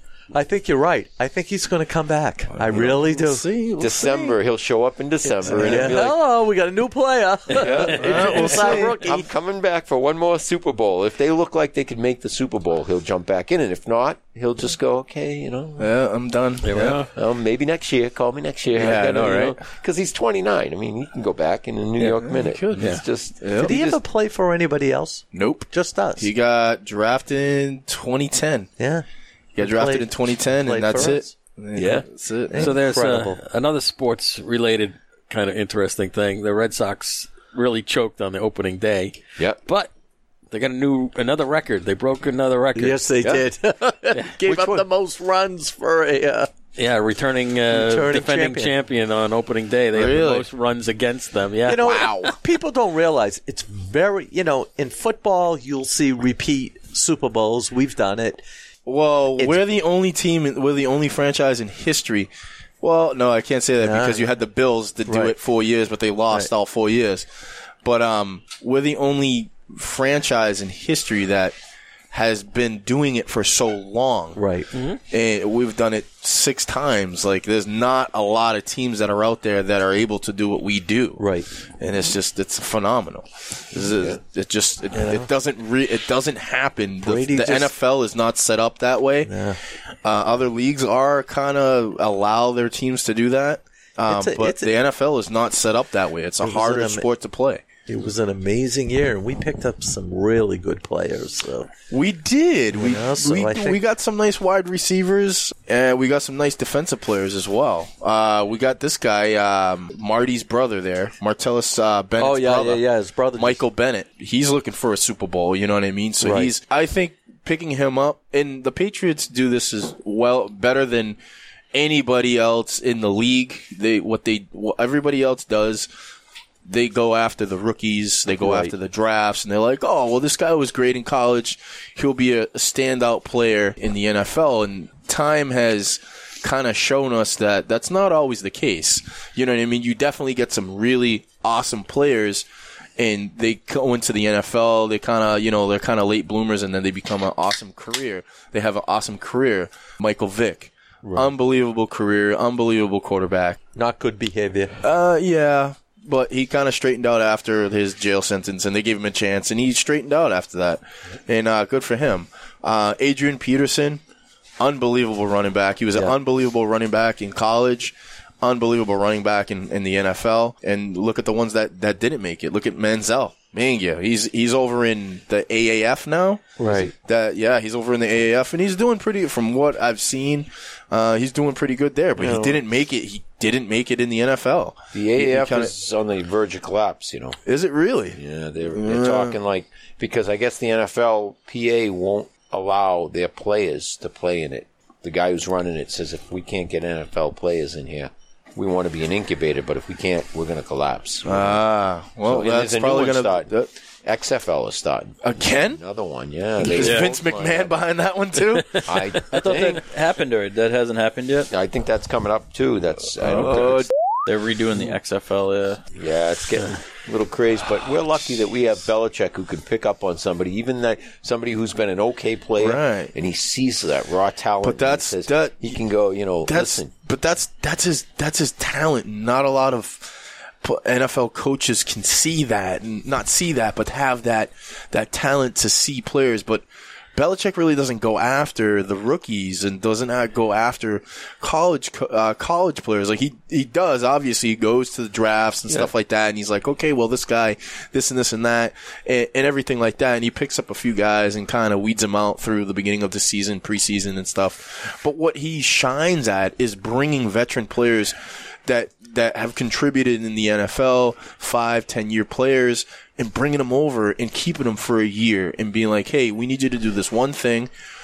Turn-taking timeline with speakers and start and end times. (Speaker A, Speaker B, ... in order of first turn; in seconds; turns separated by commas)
Speaker A: 0.3-3.5, Speaker B: 2.5-4.3, Speaker C: 3.8-6.2, Speaker A: 5.3-9.3, Speaker B: 5.4-6.0, Speaker C: 7.5-15.9, Speaker B: 7.9-9.0, Speaker B: 15.8-17.0, Speaker D: 16.6-17.1, Speaker C: 17.1-24.0, Speaker B: 18.8-19.6, Speaker B: 22.0-23.7, Speaker D: 22.8-23.0, Speaker A: 23.6-26.3, Speaker B: 25.3-28.7, Speaker A: 28.8-29.0, Speaker B: 29.6-32.7, Speaker A: 29.6-31.3, Speaker C: 31.8-32.1, Speaker A: 32.5-33.4, Speaker D: 32.6-39.9, Speaker D: 40.5-43.0, Speaker A: 42.7-46.5, Speaker B: 44.4-44.8, Speaker D: 46.8-52.1, Speaker A: 47.7-48.8, Speaker B: 49.9-50.5, Speaker A: 51.6-58.4, Speaker B: 51.8-52.3, Speaker B: 58.9-62.3, Speaker B: 62.8-67.2, Speaker A: 63.8-64.3, Speaker A: 65.1-65.3, Speaker B: 67.8-71.5, Speaker B: 72.1-74.4, Speaker A: 74.3-74.7, Speaker D: 74.7-75.0, Speaker B: 75.1-81.3, Speaker A: 81.2-81.5, Speaker B: 81.8-89.3, Speaker A: 84.9-85.3, Speaker A: 87.0-87.7, Speaker A: 89.2-89.6, Speaker B: 90.0-97.6, Speaker A: 94.1-94.7, Speaker A: 96.4-97.1, Speaker A: 97.9-101.7, Speaker B: 101.9-112.8, Speaker A: 102.7-103.8, Speaker A: 112.2-113.6, Speaker B: 113.3-121.2, Speaker A: 116.2-116.5, Speaker B: 121.7-125.9, Speaker B: 126.7-142.4, Speaker A: 128.3-128.7, Speaker B: 143.0-153.6, Speaker A: 151.0-151.3, Speaker A: 153.7-154.8, Speaker B: 154.8-164.0, Speaker B: 164.6-185.7, Speaker A: 176.6-176.9, Speaker C: 176.7-176.9, Speaker A: 182.2-182.6, Speaker C: 184.9-187.4, Speaker B: 187.4-188.2, Speaker C: 188.1-201.6, Speaker B: 188.7-189.4, Speaker B: 201.2-203.7, Speaker C: 202.2-203.5, Speaker C: 204.0-207.7, Speaker B: 205.2-205.8, Speaker B: 206.6-208.9, Speaker E: 206.8-207.1, Speaker C: 208.8-209.8, Speaker E: 209.3-211.5, Speaker C: 211.5-213.9, Speaker B: 213.2-213.9, Speaker E: 213.3-215.8, Speaker C: 215.9-226.9, Speaker B: 222.6-223.1, Speaker B: 224.6-225.8, Speaker B: 226.4-258.1, Speaker B: 258.6-267.7